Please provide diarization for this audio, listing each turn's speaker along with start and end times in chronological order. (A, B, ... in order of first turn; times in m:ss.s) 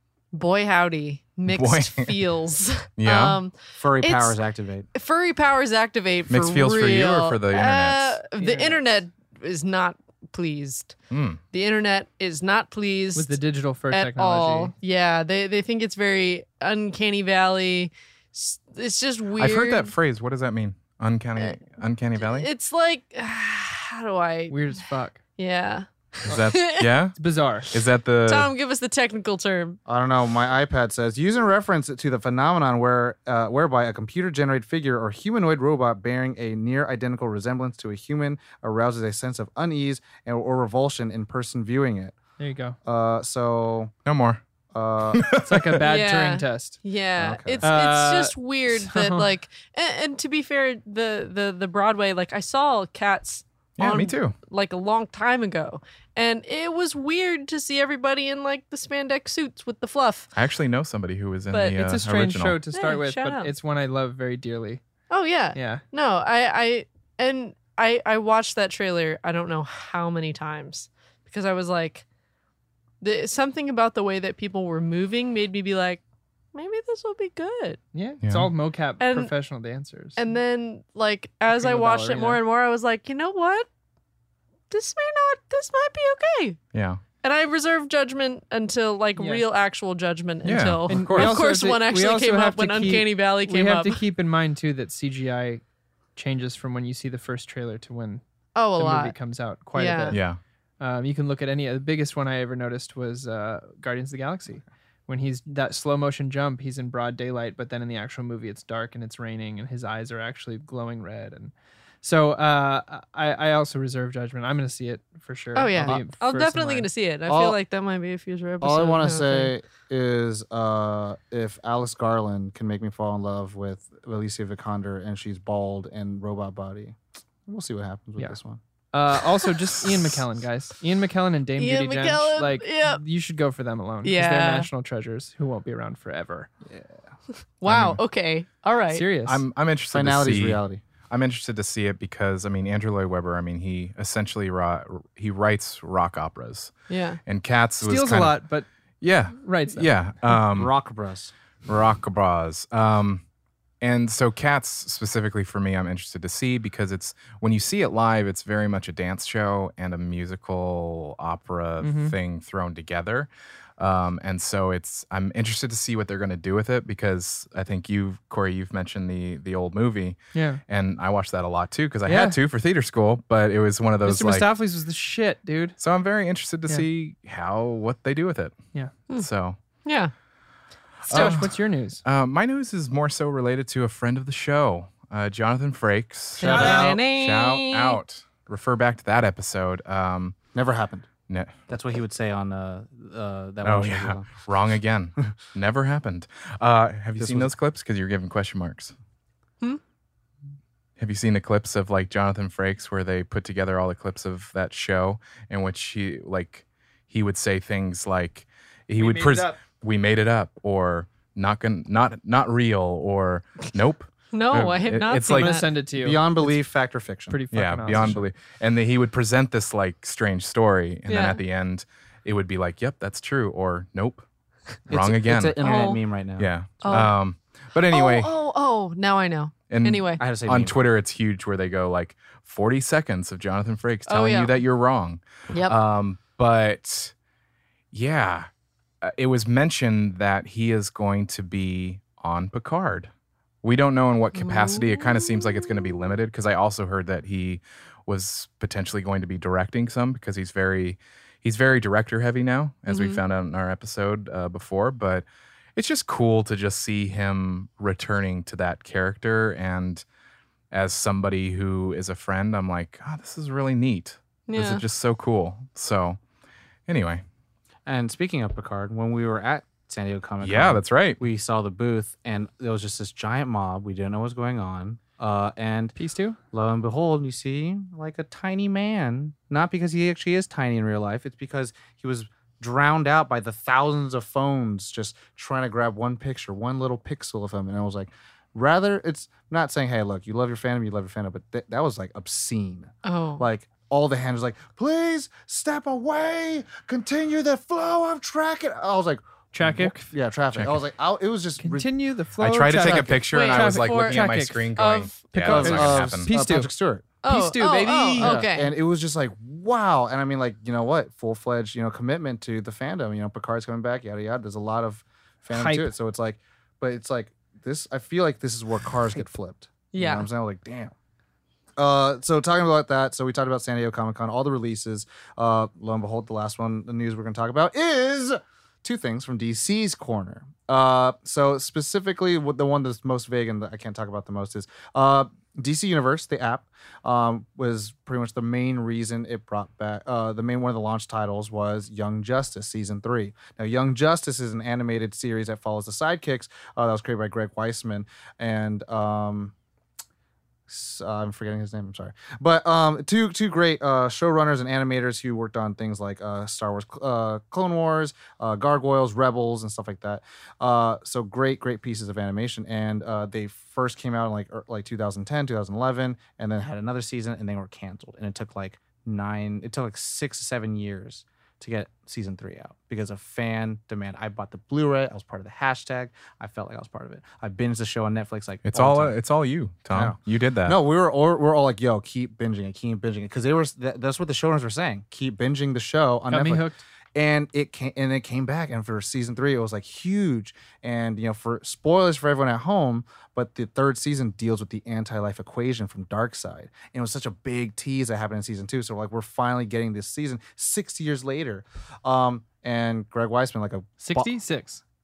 0:00.3-0:04.4 A
0:01.5-0:02.2 B
0:03.0-0:03.4 B
0:03.8-0:04.9 C
0:04.9-0:11.0 A
0:06.3-0:08.2 B
0:08.4-0:08.8 D
0:11.1-0:11.4 B
0:11.5-0:13.4 A
0:13.2-0:14.7 D
0:13.9-0:19.9 A
0:19.4-0:22.5 B
0:22.2-0:24.6 A
0:24.5-0:25.2 D
0:25.4-0:26.9 A
0:26.2-0:27.2 B
0:27.2-0:27.7 D
0:27.7-0:28.5 B
0:28.2-0:29.8 A
0:29.9-0:42.2 C
0:42.4-0:42.8 D
0:42.8-0:43.9 C
0:44.1-0:44.4 B
0:44.7-0:45.3 C
0:45.1-0:45.8 B
0:45.4-0:46.8 D
0:45.8-1:00.3 A
0:47.2-0:47.7 C
0:47.6-0:49.3 D
0:53.8-0:54.4 B
1:00.4-1:02.6 B
1:01.5-1:01.8 A
1:01.7-1:04.8 D
1:02.7-1:03.5 A
1:05.1-1:12.0 A
1:05.5-1:05.8 D
1:13.0-1:16.0 A
1:16.5-1:17.8 A
1:17.9-1:20.2 D
1:18.2-1:18.5 B
1:19.0-1:19.3 A
1:20.2-1:23.7 A
1:21.5-1:22.4 D
1:24.7-1:26.6 A
1:26.7-1:27.0 B
1:27.2-1:34.0 A
1:29.2-1:29.4 D
1:30.4-1:31.4 B
1:30.9-1:35.6 D
1:36.2-1:38.2 D
1:38.6-1:39.2 A
1:38.8-1:40.2 D
1:39.7-1:40.2 A
1:40.1-1:40.4 B
1:40.8-1:56.9 D
1:55.6-1:59.5 A
1:57.3-1:57.6 C
1:58.6-2:08.6 C
2:08.9-2:16.5 D
2:11.6-2:13.0 A
2:14.0-2:14.7 A
2:16.7-2:17.0 C
2:17.6-2:19.1 A
2:17.6-2:18.0 B
2:18.9-2:19.4 D
2:19.3-2:26.7 B
2:19.9-2:20.8 C
2:26.9-2:27.2 A
2:27.3-2:28.4 B
2:27.8-2:28.7 D
2:29.0-2:30.7 B
2:29.4-2:29.9 D
2:30.4-2:31.3 C
2:31.7-2:33.2 B
2:33.8-2:54.5 B
2:41.8-2:42.2 D
2:50.3-2:50.6 D
2:52.0-2:52.4 D
2:54.0-2:55.8 D
2:55.8-2:58.6 B
2:59.2-2:59.6 B
2:59.8-3:00.1 A
3:01.1-3:01.5 B
3:01.1-3:02.0 D
3:01.1-3:01.5 A
3:02.0-3:10.4 B
3:06.4-3:08.0 A
3:06.4-3:07.0 C
3:06.4-3:06.9 D
3:10.5-3:11.1 C
3:11.3-3:11.6 B
3:11.7-3:14.5 C
3:13.6-3:19.0 B
3:17.2-3:17.5 C
3:21.0-3:35.5 B
3:29.0-3:29.6 D
3:34.3-3:35.7 A
3:35.1-3:36.6 D
3:35.9-3:38.1 C
3:37.3-3:38.2 D
3:37.5-3:44.3 B
3:41.1-3:41.4 A
3:44.9-3:45.9 B
3:44.9-3:47.1 C
3:45.6-3:46.0 A
3:46.4-3:48.3 B
3:46.8-3:47.1 A
3:47.9-3:50.2 A
3:49.7-3:57.1 B
3:50.2-3:50.8 C
3:54.1-3:54.6 A
3:55.5-3:55.8 A
3:57.9-3:58.5 B
3:59.0-4:03.1 B
4:03.6-4:15.2 B
4:04.4-4:06.0 A
4:12.9-4:13.2 A
4:15.8-4:20.0 B
4:20.7-4:26.2 B
4:24.5-4:24.8 A
4:26.9-4:27.2 B
4:27.9-4:36.0 C
4:30.4-4:31.2 B
4:36.0-4:36.4 D
4:36.5-5:01.9 C
4:53.0-4:53.5 A
4:59.5-5:00.1 D
5:00.5-5:00.8 B
5:01.6-5:04.8 D
5:02.4-5:06.3 B
5:02.8-5:03.2 C
5:03.3-5:05.2 A
5:05.4-5:20.9 C
5:05.4-5:06.7 D
5:07.2-5:08.7 A
5:07.3-5:08.4 D
5:15.5-5:15.9 D
5:19.9-5:20.3 A
5:21.8-5:49.5 C
5:50.7-6:19.2 C
6:18.7-6:20.8 B
6:19.9-6:44.3 C
6:26.3-6:26.8 D
6:44.0-6:44.8 D